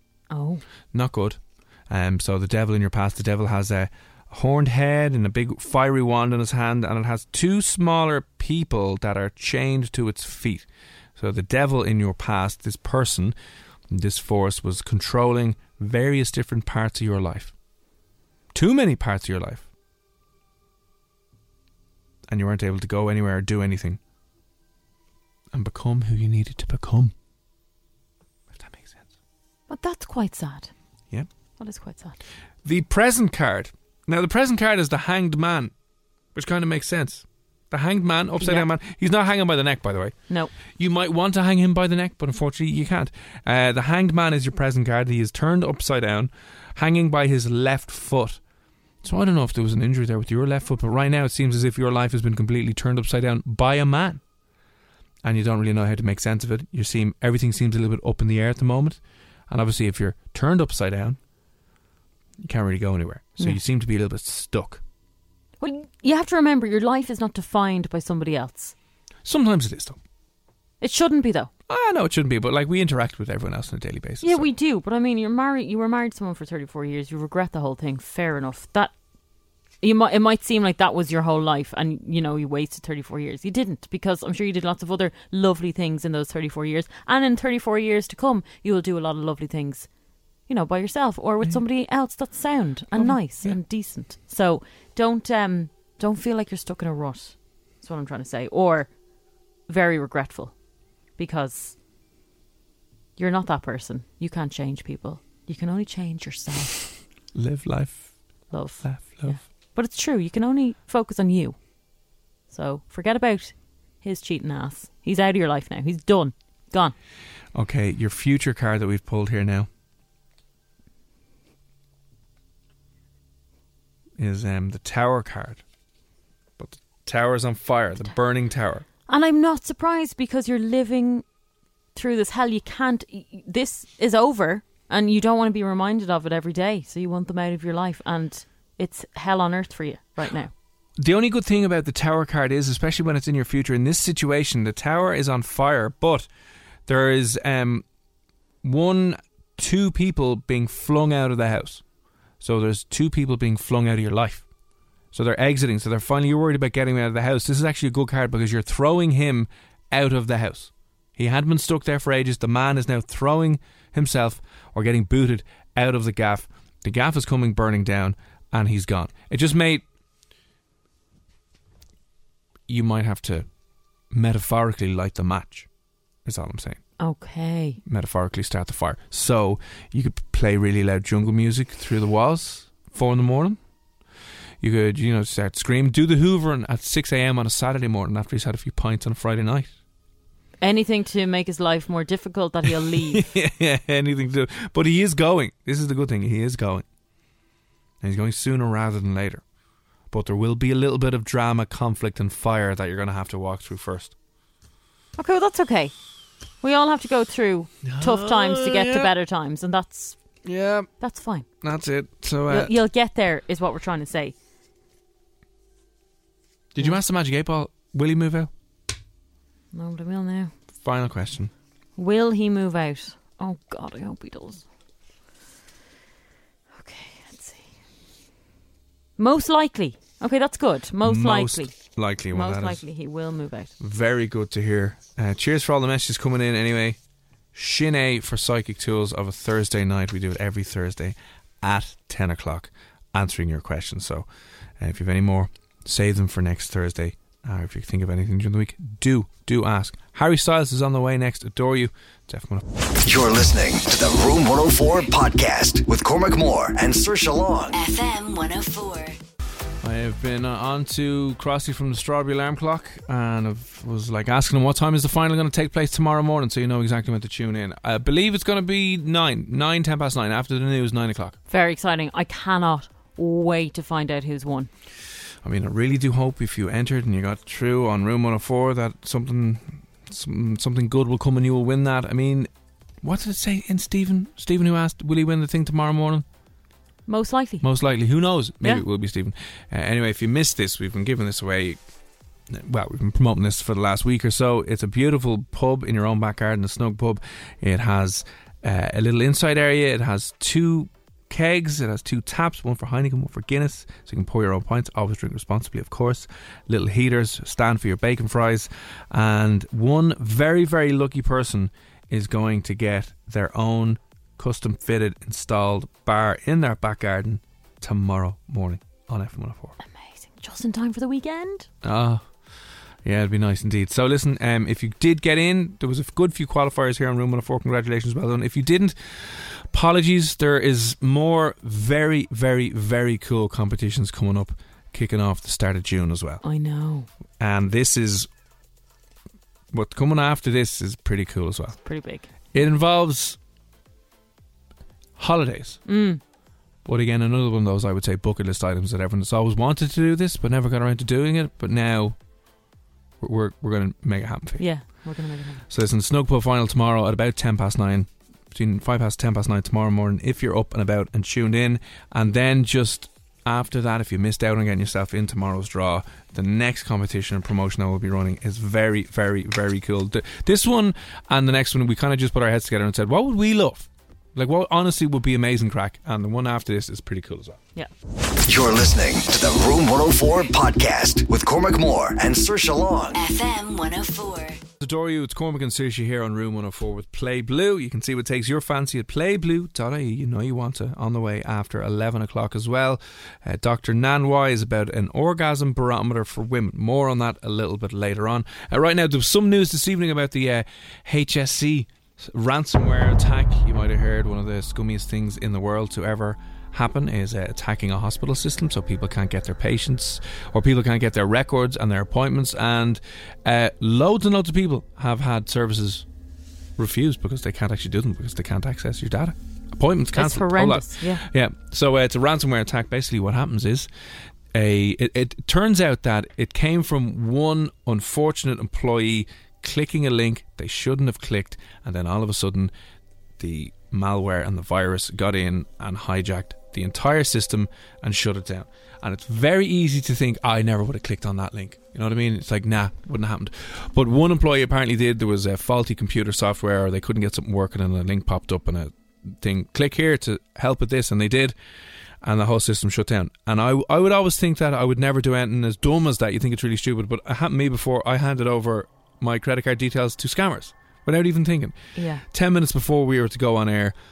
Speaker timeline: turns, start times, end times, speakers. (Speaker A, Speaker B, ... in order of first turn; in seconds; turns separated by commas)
Speaker A: 0.3-0.6, Speaker B: 0.9-13.3, Speaker B: 13.9-17.5, Speaker B: 18.5-19.6, Speaker B: 22.3-24.0, Speaker B: 25.5-27.1, Speaker B: 28.5-29.1, Speaker A: 29.7-30.7, Speaker A: 31.6-32.2, Speaker B: 32.6-35.7, Speaker B: 36.3-40.1, Speaker A: 38.4-38.7, Speaker B: 40.7-48.4, Speaker B: 49.0-54.2, Speaker B: 55.2-61.2, Speaker B: 62.4-64.8, Speaker A: 65.6-68.7, Speaker B: 69.2-70.0, Speaker A: 70.8-71.5, Speaker B: 71.7-74.5, Speaker A: 74.2-78.9, Speaker A: 79.8-89.9, Speaker A: 90.5-98.9, Speaker B: 92.9-93.6, Speaker A: 99.7-100.5, Speaker A: 101.2-101.8, Speaker A: 103.2-106.9, Speaker B: 107.3-108.1, Speaker A: 108.5-111.6, Speaker B: 108.8-109.4, Speaker A: 112.5-116.9, Speaker B: 117.5-119.7, Speaker B: 124.2-125.6, Speaker B: 126.6-128.8, Speaker A: 129.1-131.2, Speaker A: 131.9-140.5, Speaker B: 141.0-146.3, Speaker B: 146.9-147.8, Speaker B: 148.6-151.8, Speaker B: 152.4-154.4, Speaker B: 155.1-169.8, Speaker B: 172.7-173.5, Speaker B: 174.1-175.7, Speaker B: 176.2-176.8, Speaker A: 177.0-177.8, Speaker B: 177.8-183.6, Speaker B: 184.6-189.7, Speaker A: 190.6-193.3, Speaker B: 192.9-196.8, Speaker B: 198.0-199.4, Speaker B: 200.1-204.1, Speaker A: 205.2-205.9, Speaker A: 206.6-210.2, Speaker B: 207.8-209.1, Speaker B: 210.4-210.9, Speaker A: 211.0-211.4, Speaker B: 211.6-212.7, Speaker A: 212.5-214.3, Speaker B: 216.7-218.5, Speaker A: 219.7-220.5, Speaker B: 220.8-221.5, Speaker A: 221.9-224.6, Speaker A: 226.7-227.7, Speaker A: 229.2-231.8, Speaker B: 231.0-232.8, Speaker A: 232.3-233.7, Speaker B: 233.8-237.0, Speaker B: 237.5-244.3, Speaker B: 244.8-252.6, Speaker C: 253.0-257.8, Speaker D: 257.7-259.1, Speaker B: 259.8-271.4, Speaker A: 271.5-274.7, Speaker B: 275.4-282.5, Speaker B: 283.0-286.2, Speaker A: 287.1-287.6, Speaker B: 287.6-291.8, Speaker B: 292.5-319.8, Speaker A: 319.8-321.7, Speaker B: 321.8-322.3, Speaker B: 323.0-336.4, Speaker A: 336.4-337.1, Speaker B: 337.4-338.3, Speaker B: 339.7-341.8, Speaker A: 341.8-342.3, Speaker B: 342.5-343.4, Speaker B: 345.2-345.8, Speaker A: 345.9-346.2, Speaker B: 346.8-352.1, Speaker B: 353.2-354.6, Speaker A: 354.6-355.6, Speaker B: 355.7-377.6, Speaker C: 378.4-383.2, Speaker D: 383.1-384.6, Speaker B: 384.8-416.0, Speaker B: 416.8-423.9, Speaker A: 420.1-421.2, Speaker B: 424.5-432.7, Speaker B: 433.4-451.5, Speaker B: 452.2-463.9, Speaker A: 461.9-462.2